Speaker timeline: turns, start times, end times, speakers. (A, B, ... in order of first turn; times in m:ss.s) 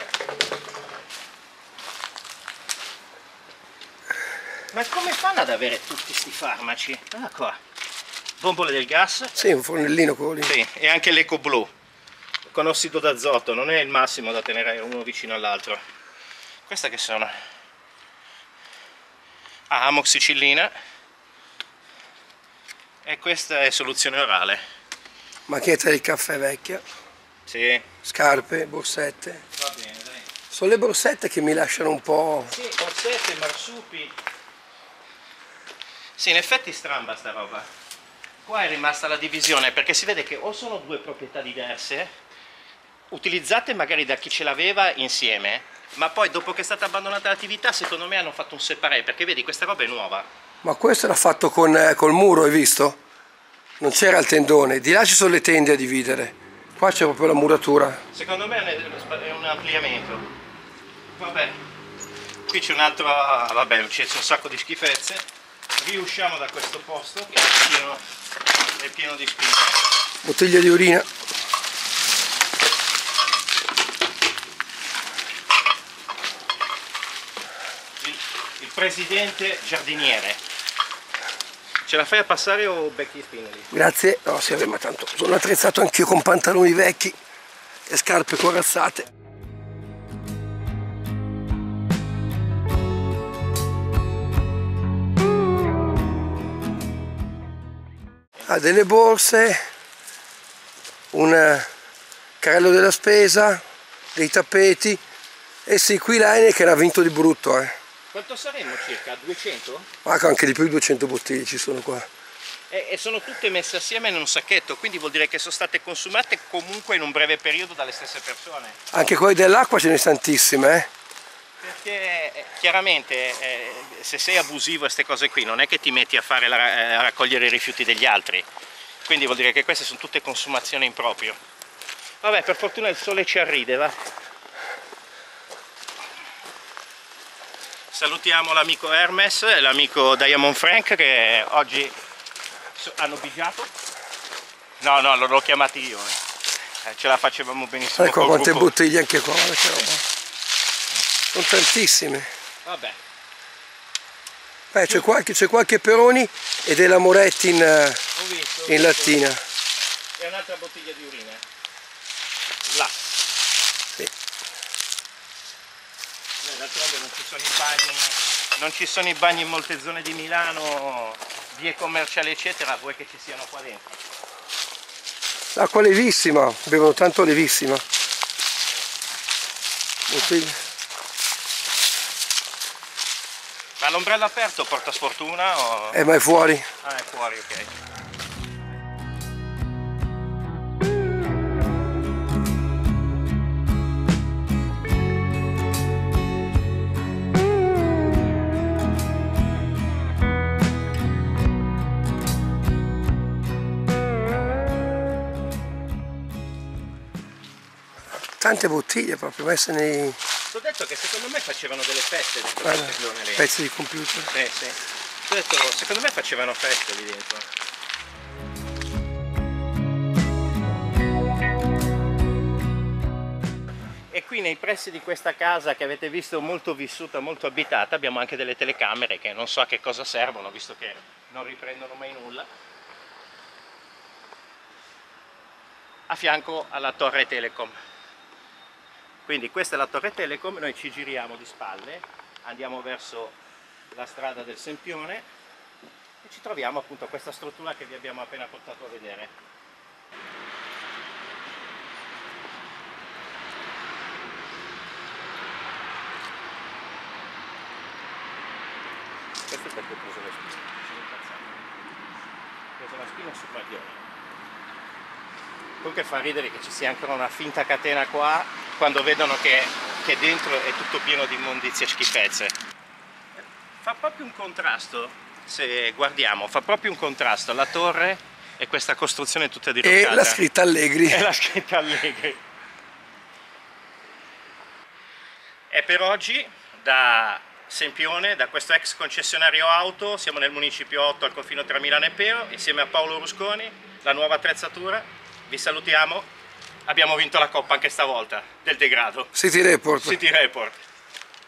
0:04.7-0:07.6 A
0:08.4-0:09.3 A
0:09.4-0:10.5 B
0:10.4-0:11.7 A
0:12.4-0:15.8 A
0:16.7-0:17.4 A
0:19.7-0:20.7 A
0:23.0-0:24.6 A
0:25.5-0:26.8 B
0:27.5-0:27.9 A
0:28.0-0:29.4 B
0:29.6-0:30.3 A
0:30.5-0:32.5 B
0:32.4-0:34.2 A
0:36.2-0:37.7 A
0:38.4-0:42.1 A
0:43.1-0:50.3 A
0:50.6-0:53.0 B
0:53.8-0:58.0 B
0:58.1-1:00.3 A
1:01.2-1:01.6 A
1:02.5-1:05.2 A
1:05.8-1:08.0 A
1:08.8-1:09.8 A
1:10.2-1:11.1 B
1:18.0-1:20.4 A
1:21.9-1:23.7 A
1:23.7-1:27.2 B
1:27.9-1:29.1 B
1:38.4-1:39.6 B
1:41.1-1:41.7 B
1:42.4-1:43.6 B
1:44.1-1:45.0 B
1:45.7-1:47.7 B
1:48.1-1:49.9 A
1:50.0-1:52.1 B
1:52.7-1:58.8 A
1:58.9-2:00.9 B
2:01.6-2:08.5 A
2:09.0-2:11.4 A
2:12.2-2:14.0 A
2:17.9-2:21.9 A
2:22.8-2:23.7 A
2:24.8-2:26.2 A
2:26.8-2:28.7 A
2:28.0-2:30.0 B
2:31.3-2:32.3 B
2:32.6-2:33.0 A
2:34.7-2:38.0 B
2:34.8-2:35.1 A
2:38.1-2:39.3 A
2:38.7-2:39.4 B
2:40.2-2:41.4 A
2:42.7-2:43.1 A
2:46.4-2:54.0 A
2:55.6-2:57.8 B
3:00.1-3:00.6 B
3:03.8-3:06.0 A
3:05.9-3:06.7 B
3:06.8-3:07.7 A
3:28.4-3:30.2 B
3:30.5-3:33.5 A
3:32.6-3:34.3 B
3:34.3-3:37.5 A
3:44.1-3:52.5 A
3:56.1-3:57.7 A
3:59.3-4:03.4 A
4:03.9-4:05.3 A
4:06.2-4:09.3 A
4:19.5-4:21.7 A
4:22.8-4:24.0 A
4:25.8-4:32.5 A
4:33.4-4:40.4 A
4:39.8-4:41.3 B
4:41.1-4:42.4 A
4:45.7-4:56.3 A
4:56.9-4:59.3 A
4:59.4-5:00.2 B
5:00.0-5:00.8 A